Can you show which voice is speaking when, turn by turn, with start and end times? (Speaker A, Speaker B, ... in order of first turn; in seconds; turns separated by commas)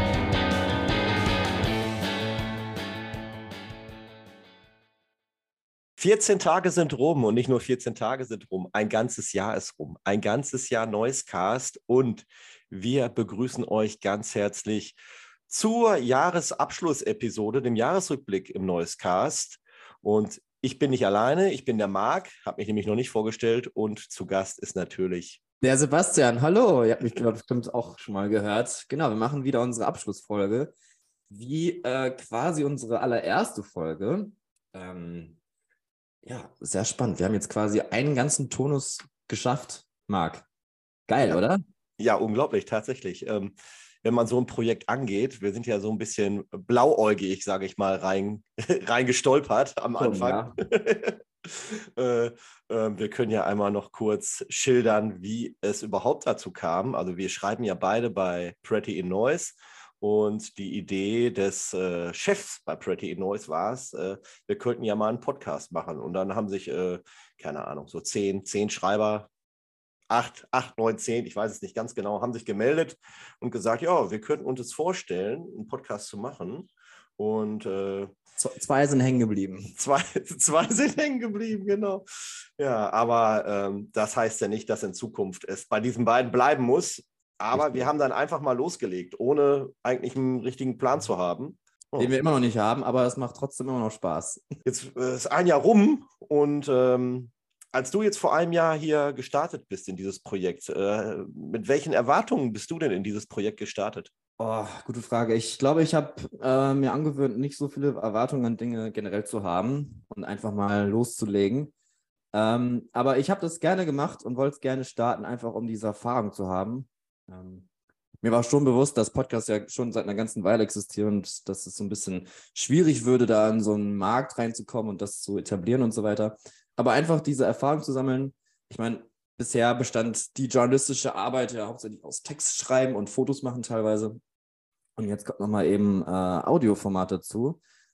Speaker A: 6.0-15.0, Speaker A: 15.5-25.4, Speaker B: 25.6-30.7, Speaker B: 31.3-35.4, Speaker B: 36.2-40.5, Speaker B: 41.1-41.6, Speaker A: 42.0-69.3, Speaker B: 50.0-50.6, Speaker A: 70.1-78.1, Speaker B: 78.4-79.8, Speaker A: 79.8-92.1, Speaker B: 87.5-87.9, Speaker B: 92.0-94.4, Speaker A: 94.6-104.1, Speaker B: 104.4-111.7, Speaker B: 112.3-117.7, Speaker B: 118.2-134.2, Speaker B: 135.0-137.6